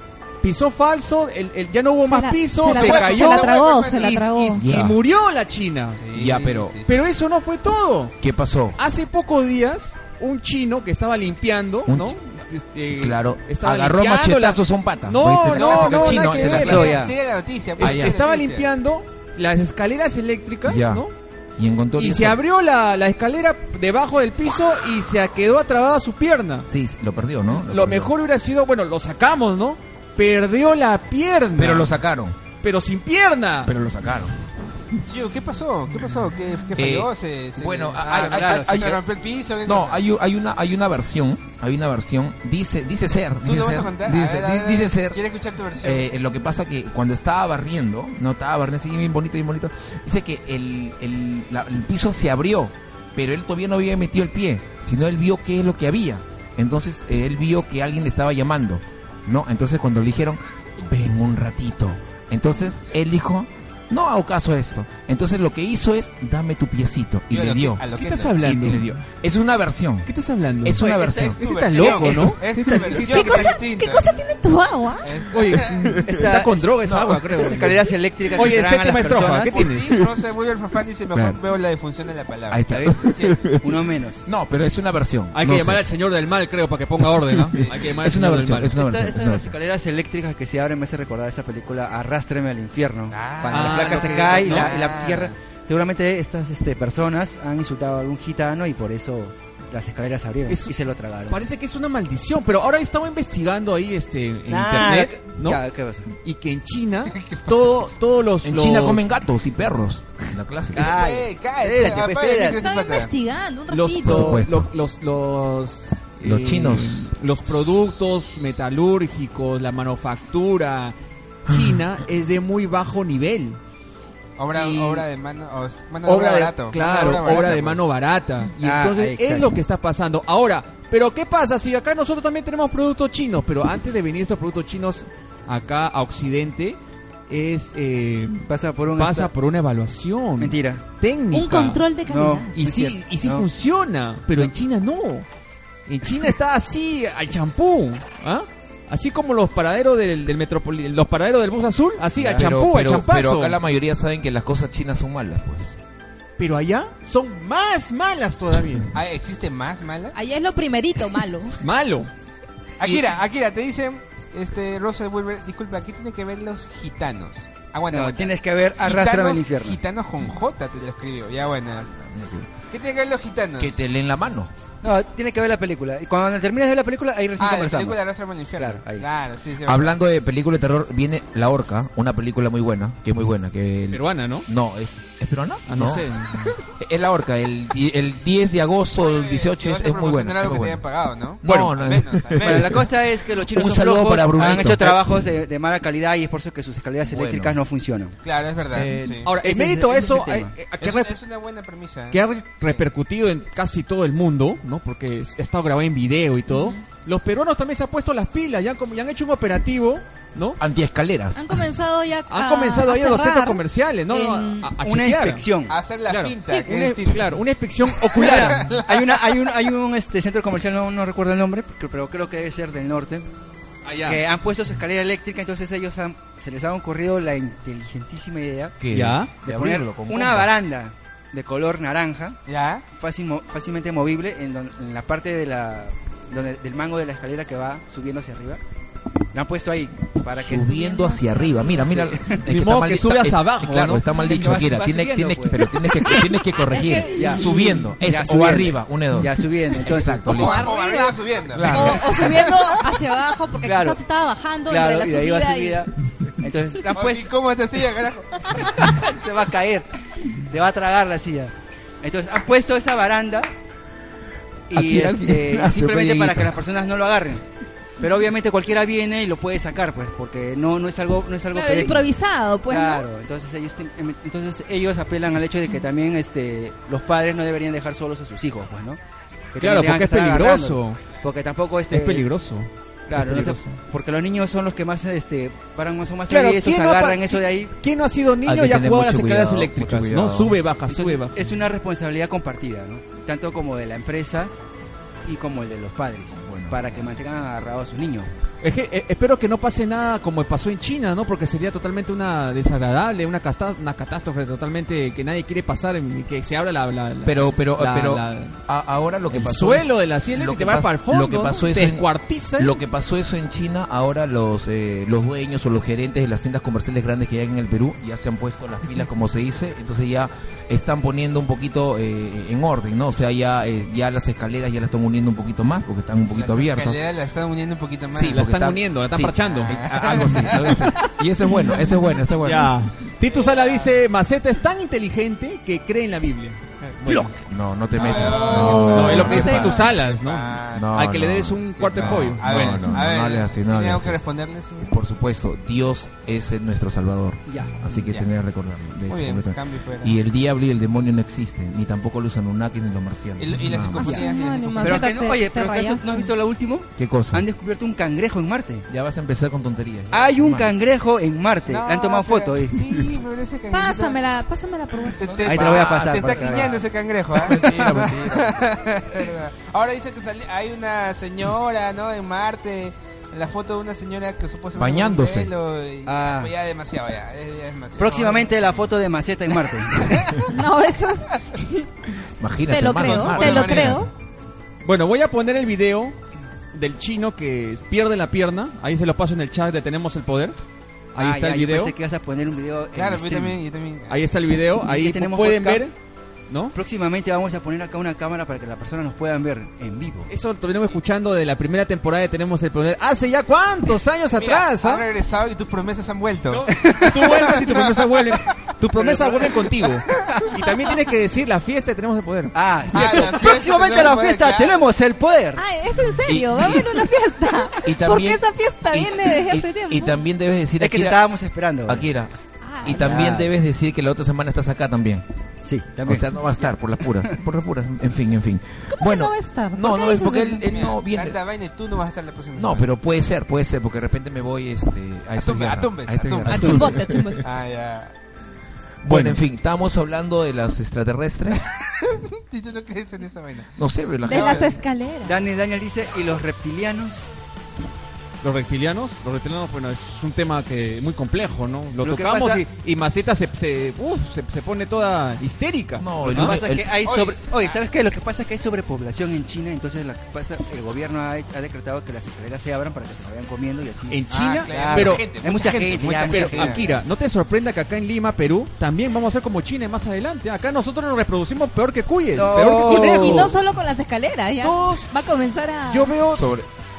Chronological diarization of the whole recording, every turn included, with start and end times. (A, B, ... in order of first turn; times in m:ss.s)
0:00.4-0:06.0 A
0:02.0-0:04.6 B
0:02.6-0:04.3 C
0:04.5-0:05.0 D
0:06.0-0:07.0 C
0:06.1-0:06.8 D
0:06.9-0:08.2 A
0:08.2-0:08.8 D
0:08.8-0:17.0 A
0:11.9-0:12.2 D
0:12.9-0:17.0 D
0:15.5-0:18.7 C
0:15.9-0:17.1 E
0:17.8-0:21.1 A
0:17.8-0:18.2 D
0:20.6-0:22.4 D
0:21.9-0:26.7 A
0:26.6-0:28.1 D
0:27.5-0:31.9 A
0:31.6-0:32.4 D
0:32.6-0:33.7 A
0:33.6-0:34.3 D
0:35.1-0:40.0 C
0:36.8-0:39.0 D
0:38.0-0:38.9 E
0:39.6-0:45.2 D
0:43.4-0:46.1 C
0:45.8-1:07.8 D
1:07.3-1:08.4 C
1:07.9-1:09.0 A
1:08.4-1:11.4 D
1:10.0-1:10.9 A
1:10.8-1:11.8 E
1:11.3-1:14.2 C
1:11.4-1:13.5 A
1:13.0-1:15.1 B
1:15.0-1:15.9 C
1:15.3-1:20.0 A
1:15.7-1:16.0 D
1:16.0-1:19.7 E
1:16.8-1:17.3 D
1:19.5-1:23.4 C
1:21.1-1:21.4 D
1:22.5-1:23.7 D
1:22.7-1:23.0 E
1:23.5-1:24.2 E
1:24.2-1:25.9 D
1:25.3-1:28.7 A
1:27.0-1:29.5 D
1:28.7-1:41.4 E
1:33.1-1:35.3 C
1:33.5-1:34.8 A
1:40.5-1:40.7 A
1:41.3-1:45.6 A
1:44.5-1:46.1 E
1:46.2-1:49.1 A
1:47.1-1:47.9 C
1:48.4-1:51.0 D
1:50.7-1:52.6 E
1:50.7-1:53.1 C
1:52.6-1:54.4 B
1:53.7-2:00.9 A
1:54.0-1:54.7 D
1:56.2-1:57.1 D
2:01.5-2:03.6 A
2:01.5-2:01.8 D
2:04.4-2:07.8 C
2:04.5-2:05.0 A
2:06.0-2:21.8 A
2:08.6-2:09.6 E
2:18.5-2:19.3 E
2:20.4-2:20.8 E
2:21.3-2:22.6 B
2:22.1-2:23.4 E
2:22.6-2:25.2 A
2:25.9-2:33.6 A
2:32.2-2:35.8 D
2:32.2-2:32.4 E
2:36.4-2:38.9 A
2:38.9-2:40.2 C
2:40.1-2:41.6 B
2:41.6-2:42.1 A
2:42.8-2:51.9 C
2:42.8-2:43.1 D
2:47.9-2:49.8 E
2:51.9-2:52.5 D
2:52.7-2:53.8 C
2:53.6-2:54.5 D
2:54.8-2:58.0 E
2:57.4-3:00.0 C
2:58.6-2:59.0 E
2:59.6-3:06.1 D
3:03.9-3:04.5 A
3:05.7-3:06.6 A
3:06.8-3:10.8 D
3:08.9-3:12.9 C
3:11.4-3:15.2 D
3:11.4-3:11.7 A
3:12.4-3:18.1 E
3:14.4-3:14.7 C
3:17.0-3:17.6 D
3:18.2-3:19.3 C
3:18.7-3:21.2 A
3:19.4-3:20.5 E
3:20.8-3:22.8 C
3:22.1-3:30.6 A
3:26.5-3:26.8 B
3:30.6-3:31.6 D
3:31.4-3:34.7 B
3:32.3-3:35.4 A
3:34.8-3:35.8 E
3:35.7-3:37.3 C
3:36.1-3:38.7 A
3:37.9-3:39.4 C
3:38.2-3:43.3 E
3:43.8-3:44.2 A
3:44.0-3:48.8 E
3:48.8-3:50.5 D
3:48.9-3:49.3 A
3:49.4-3:52.4 E
3:52.5-3:52.8 C
3:52.9-3:58.6 E
3:59.3-4:01.1 E
4:00.3-4:10.7 D
4:01.3-4:01.5 B
4:01.7-4:02.4 E
4:02.4-4:04.0 A
4:04.1-4:06.2 E
4:06.7-4:07.6 B
4:07.1-4:10.4 E
4:10.2-4:15.8 B
4:10.3-4:12.8 C
4:11.5-4:12.3 D
4:13.6-4:14.0 E
4:14.7-4:17.3 E
4:16.9-4:19.0 C
4:18.6-4:23.5 E
4:24.7-4:27.4 E
4:24.7-4:26.6 D
4:28.0-4:32.1 E
4:31.5-4:33.0 B
4:32.7-4:39.0 E
4:39.5-4:42.3 E
4:39.6-4:41.0 A
4:41.9-4:43.8 A
4:43.1-4:47.7 E
4:46.3-4:51.5 A
4:48.4-4:50.6 D
4:50.9-4:54.5 E
4:55.2-4:58.3 E
4:56.3-4:57.0 D
4:58.6-5:08.6 A
5:07.2-5:27.0 D
5:09.3-5:12.8 A
5:26.3-5:28.4 C
5:28.1-5:32.9 D
5:28.2-5:30.2 A
5:29.4-5:30.9 C
5:32.4-5:37.3 A
5:33.2-5:34.0 C
5:37.4-5:39.9 D
5:38.0-5:41.1 C
5:38.1-5:39.8 B
5:38.6-5:43.0 A
5:40.7-5:44.2 D
5:41.8-5:45.0 C
5:44.9-5:54.2 D
5:47.5-5:47.8 E
5:47.9-5:48.3 C
5:49.1-5:50.1 C
5:53.4-5:55.1 C
5:53.9-5:56.3 B
5:54.8-5:58.9 E
5:57.0-5:57.4 D
5:58.9-6:00.7 D
6:00.1-6:02.8 E
6:01.7-6:04.2 C
6:03.7-6:05.8 B
6:05.1-6:18.6 C
6:05.4-6:06.8 E
6:07.3-6:08.6 D
6:14.7-6:15.5 D
6:16.0-6:16.5 E
6:18.0-6:20.3 E
6:19.9-6:20.5 C
6:20.3-6:21.9 B
6:22.4-6:24.1 D
6:22.7-6:24.1 B
6:23.1-6:24.0 C
6:24.8-6:26.2 A
6:26.7-6:30.6 A
6:31.1-6:31.9 A
6:31.2-6:33.6 E
6:32.9-6:34.2 C
6:34.1-6:35.9 A
6:34.8-6:35.9 E
6:36.5-6:36.7 A
6:36.7-6:40.3 E
6:40.3-6:45.0 A
6:44.3-6:48.4 C
6:46.5-6:53.2 A
6:46.7-6:47.5 E
6:49.0-6:49.8 C
6:50.3-6:50.5 E
6:52.5-6:55.7 E
6:52.9-6:54.9 C
6:55.6-7:00.2 B
6:56.2-6:57.1 D
6:57.8-7:01.2 D
7:00.8-7:02.1 E
7:01.9-7:05.2 D
7:02.6-7:03.1 B
7:02.8-7:03.5 E
7:05.6-7:06.3 E
7:06.0-7:11.4 D
7:09.0-7:10.7 B
7:10.6-7:12.9 C
7:12.5-7:17.4 D
7:15.4-7:18.1 C
7:16.5-7:17.4 B
7:19.0-7:21.7 D
7:19.0-7:19.4 A
7:21.9-7:23.7 C
7:23.8-7:24.8 D
7:24.2-7:25.4 B
7:24.3-7:24.8 C
7:25.2-7:27.3 E
7:28.4-7:36.6 A
7:31.9-7:32.6 E
7:36.0-7:36.9 D
7:36.2-7:47.0 E
7:36.8-7:37.8 C
7:44.1-7:53.6 A
7:44.3-7:47.0 C
7:52.3-7:53.5 E
7:52.8-7:56.1 B
7:54.6-7:55.1 A
7:55.9-7:56.4 A
7:56.3-7:56.7 D